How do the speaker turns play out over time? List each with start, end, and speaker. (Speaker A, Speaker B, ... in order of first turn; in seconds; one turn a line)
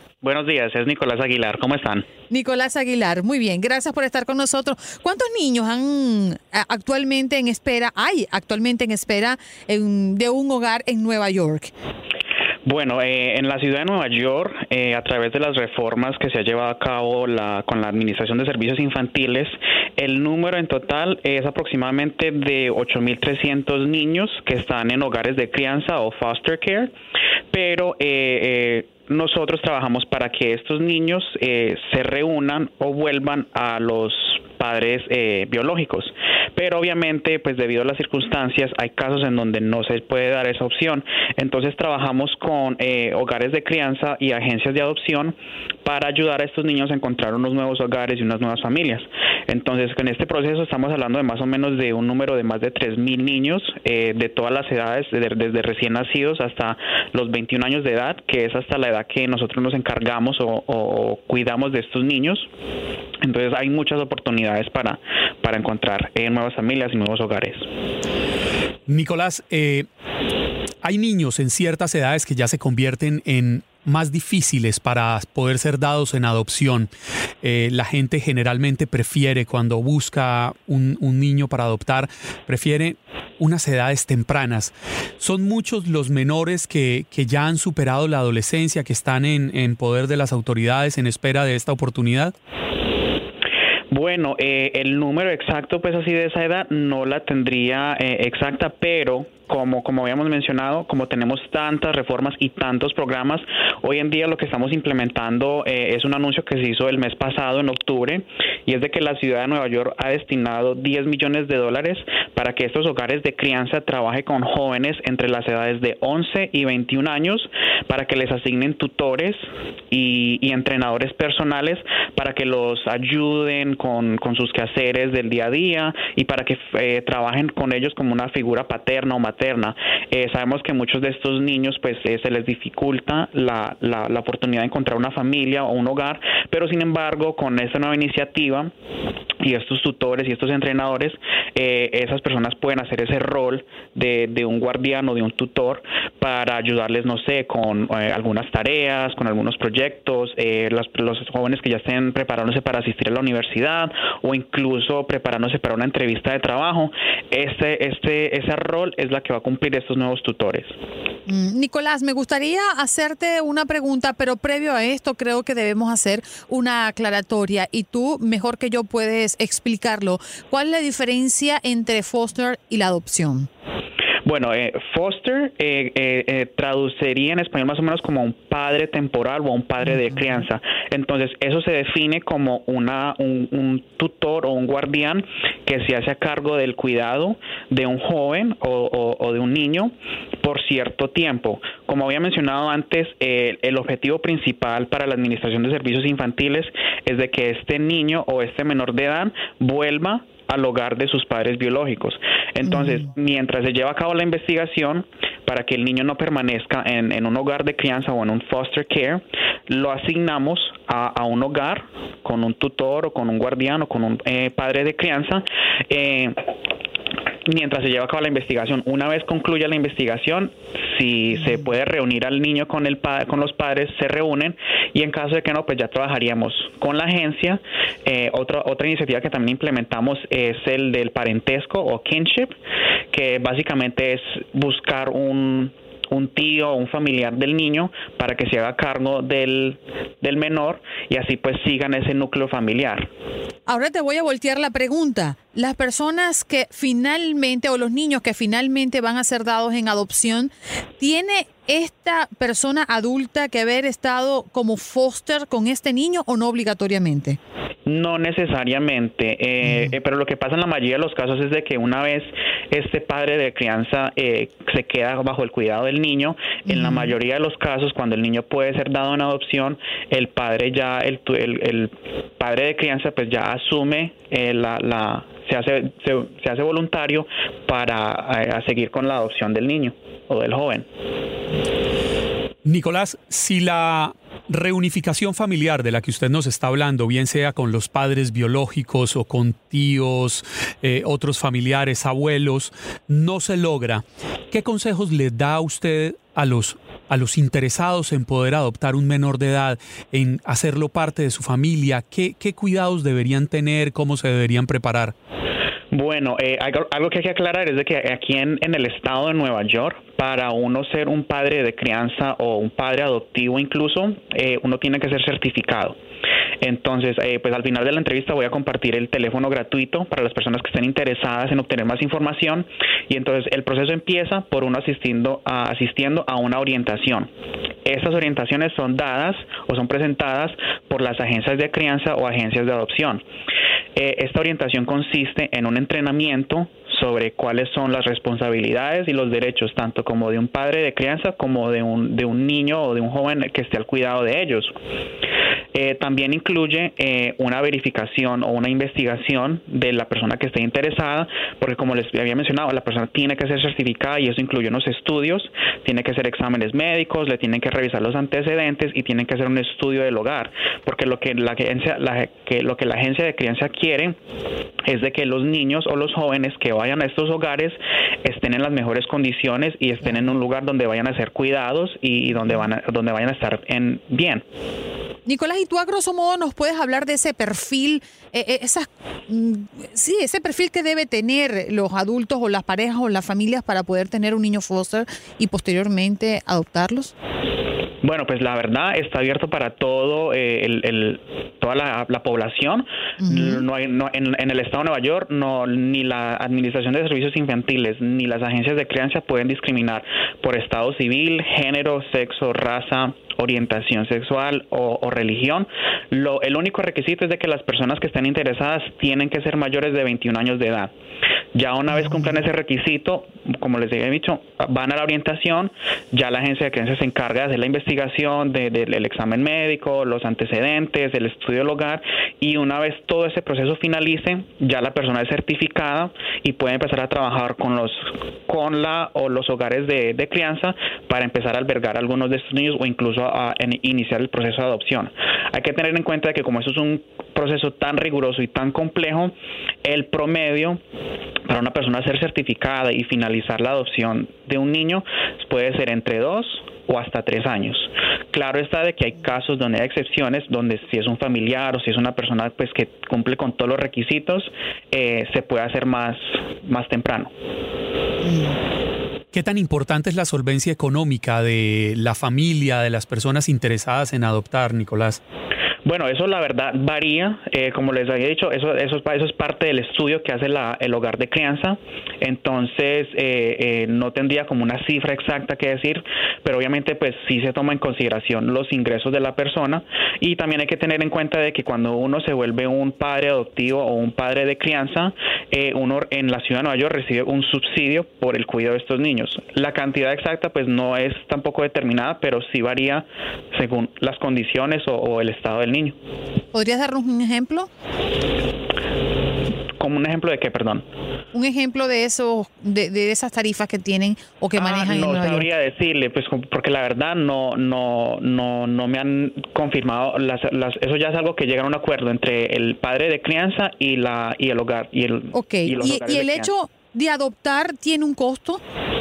Speaker A: 0.2-2.0
Speaker B: 2.3-11.7
Speaker A: 12.6-26.9
Speaker A: 27.5-62.5
Speaker A: 63.2-67.6
Speaker C: 68.9-69.9
Speaker C: 70.8-76.9
Speaker C: 77.4-92.3
Speaker A: 93.9-119.4
Speaker A: 119.9-138.7
Speaker A: 139.4-160.7
Speaker B: 161.3-173.5
Speaker A: 174.2-189.9
Speaker A: 190.4-216.4
Speaker A: 217.4-232.5
Speaker A: 233.1-243.1
Speaker B: 243.7-257.4
Speaker A: 257.9-280.9
Speaker B: 266.7-267.0
Speaker C: 282.6-305.1
Speaker A: 305.9-315.9
Speaker A: 316.6-327.3
Speaker A: 327.8-333.2
Speaker A: 333.9-344.7
Speaker A: 345.7-364.1
Speaker A: 364.9-374.4
Speaker B: 375.2-387.1
Speaker A: 388.0-410.9
Speaker A: 411.5-439.3
Speaker A: 439.8-440.8
Speaker A: 441.5-457.3
Speaker C: 459.3-465.2
Speaker A: 465.8-496.0
Speaker B: 496.5-497.7
Speaker A: 499.8-500.8
Speaker B: 501.3-505.4
Speaker A: 504.6-516.5
Speaker B: 515.3-518.6